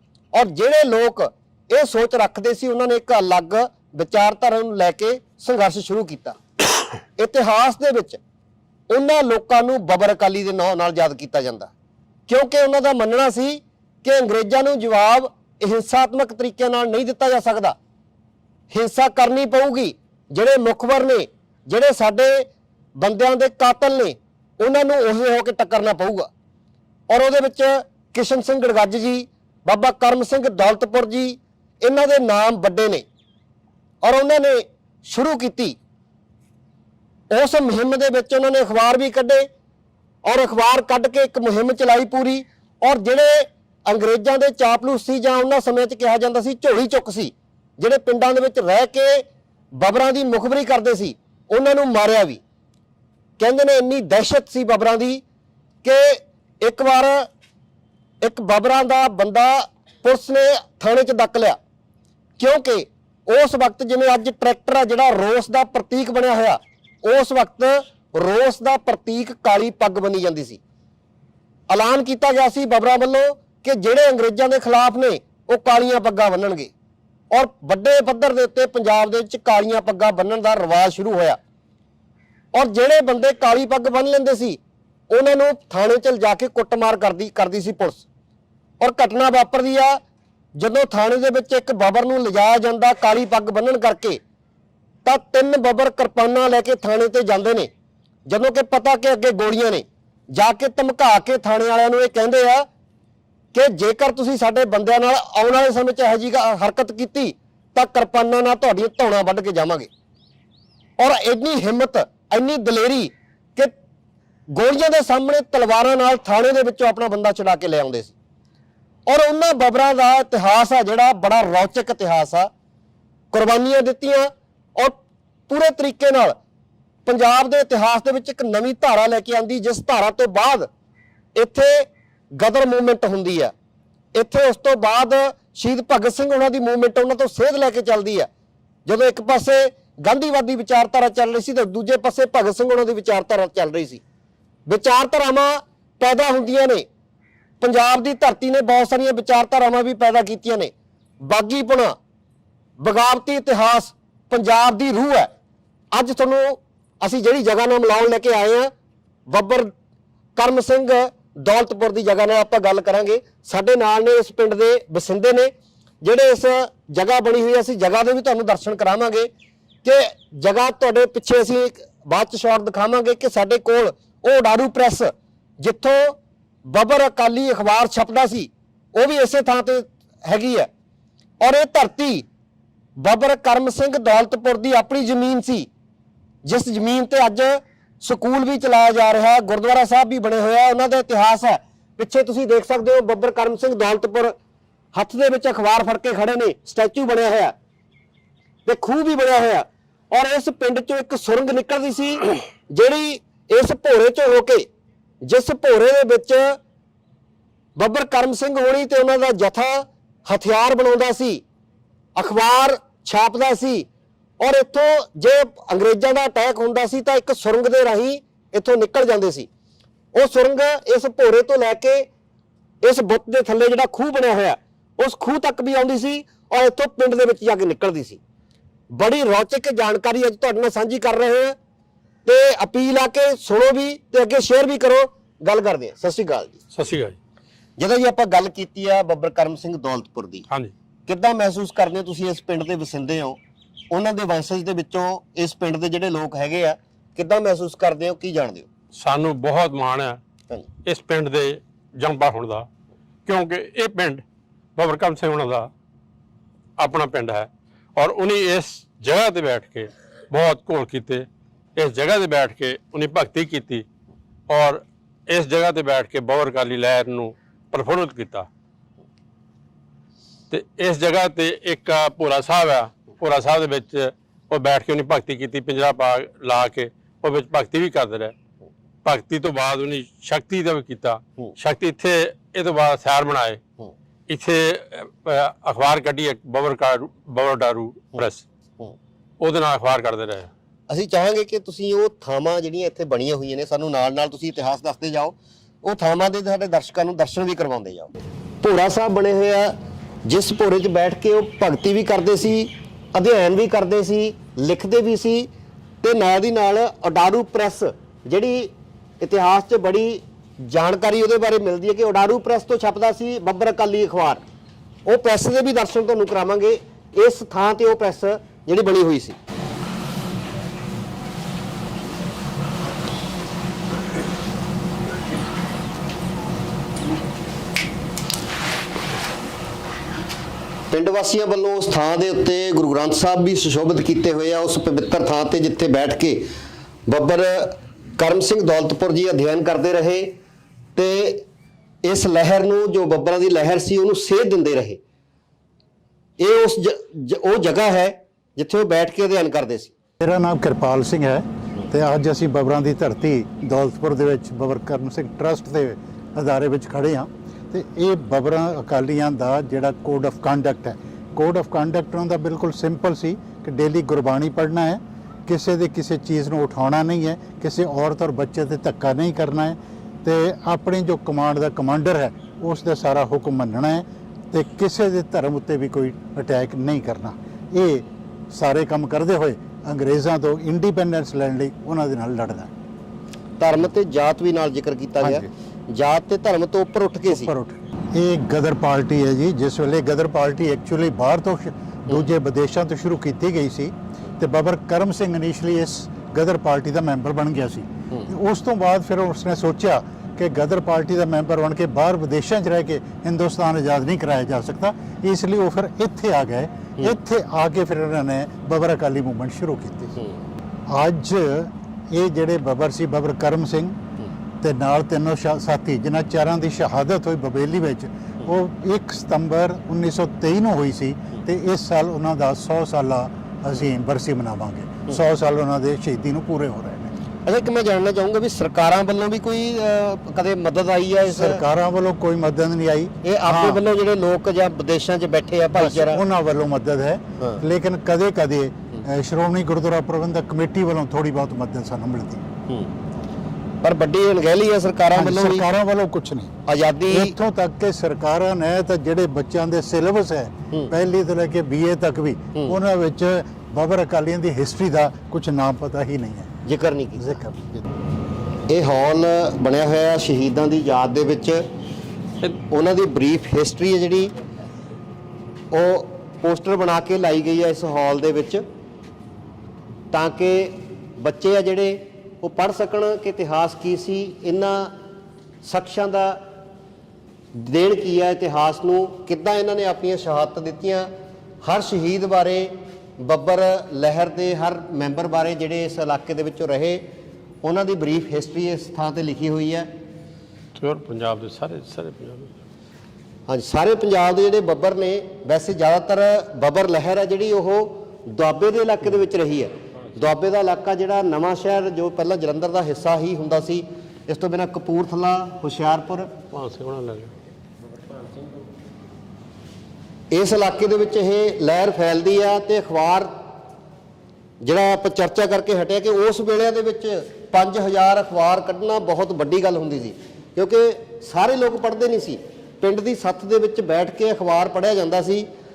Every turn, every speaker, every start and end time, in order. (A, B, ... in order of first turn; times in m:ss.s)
0:00.3-0:06.4 A
0:07.2-0:08.2 A
0:08.9-0:11.7 A
0:12.3-0:17.8 A
0:18.7-0:26.3 A
0:27.1-0:33.0 A
0:34.0-0:35.8 A
0:37.3-0:39.5 A
0:40.2-0:52.4 A
0:53.4-0:55.2 A
0:55.8-0:57.3 A
0:58.2-1:01.6 A
1:02.4-1:10.6 A
1:11.7-1:16.7 A
1:17.3-1:21.4 A
1:22.5-1:24.6 A
1:25.1-1:28.0 A
1:28.8-1:30.0 A
1:30.6-1:34.2 A
1:35.0-1:37.7 A
1:38.3-1:42.7 A
1:43.5-1:49.9 A
1:51.0-1:53.7 A
1:54.5-1:58.1 A
1:59.1-2:02.5 A
2:03.3-2:06.4 A
2:07.0-2:10.7 A
2:11.4-2:13.5 A
2:14.1-2:18.3 A
2:18.8-2:24.0 A
2:24.7-2:26.8 A
2:27.6-2:31.9 A
2:32.8-2:35.3 A
2:35.9-2:38.7 A
2:39.3-2:39.7 A
2:40.4-2:45.5 A
2:46.0-2:49.3 A
2:49.8-3:00.7 A
3:01.4-3:02.2 A
3:03.0-3:05.7 A
3:06.4-3:14.4 A
3:14.9-3:17.5 A
3:18.6-3:24.7 A
3:25.2-3:26.6 A
3:27.8-3:31.4 A
3:32.2-3:33.9 A
3:34.4-3:39.5 A
3:40.1-3:42.1 A
3:42.8-3:48.2 A
3:48.9-3:51.6 A
3:52.2-3:56.6 A
3:56.7-3:57.2 B
3:57.8-4:00.4 A
4:01.1-4:03.4 A
4:03.9-4:08.7 A
4:08.9-4:10.2 B
4:10.8-4:12.7 B
4:13.2-4:14.2 B
4:14.8-4:15.7 B
4:16.8-4:23.8 B
4:24.5-4:28.5 B
4:30.5-4:38.3 B
4:39.0-4:43.6 B
4:44.3-4:48.4 B
4:49.4-4:50.5 B
4:50.9-5:05.5 A
5:06.0-5:14.4 A
5:15.0-5:19.4 A
5:30.9-5:36.5 A
5:37.1-5:40.3 A
5:41.0-5:41.4 A
5:42.0-5:45.0 A
5:46.4-5:49.9 A
5:50.2-6:22.7 C
6:23.6-6:27.5 A
6:25.2-6:25.5 C
6:27.3-6:50.2 C
6:50.9-6:54.0 C
6:54.6-7:07.1 C
7:07.4-7:11.6 A
7:11.3-7:13.8 C
7:13.2-7:16.2 A
7:15.7-7:22.4 C
7:23.8-7:25.7 A
7:25.1-7:26.5 C
7:26.6-7:27.3 A
7:27.1-7:36.5 C
7:36.6-7:37.4 A
7:37.2-7:37.8 C
7:38.7-7:41.6 A
7:42.7-7:44.3 A
7:45.7-7:48.6 A
7:50.1-7:54.9 A
7:55.6-7:56.4 A
7:57.5-8:01.1 A
8:01.6-8:07.0 A
8:07.6-8:09.9 A
8:10.8-8:12.5 B
8:13.5-8:26.3 A
8:26.5-8:27.3 B
8:30.3-8:33.3 A
8:34.6-8:45.5 A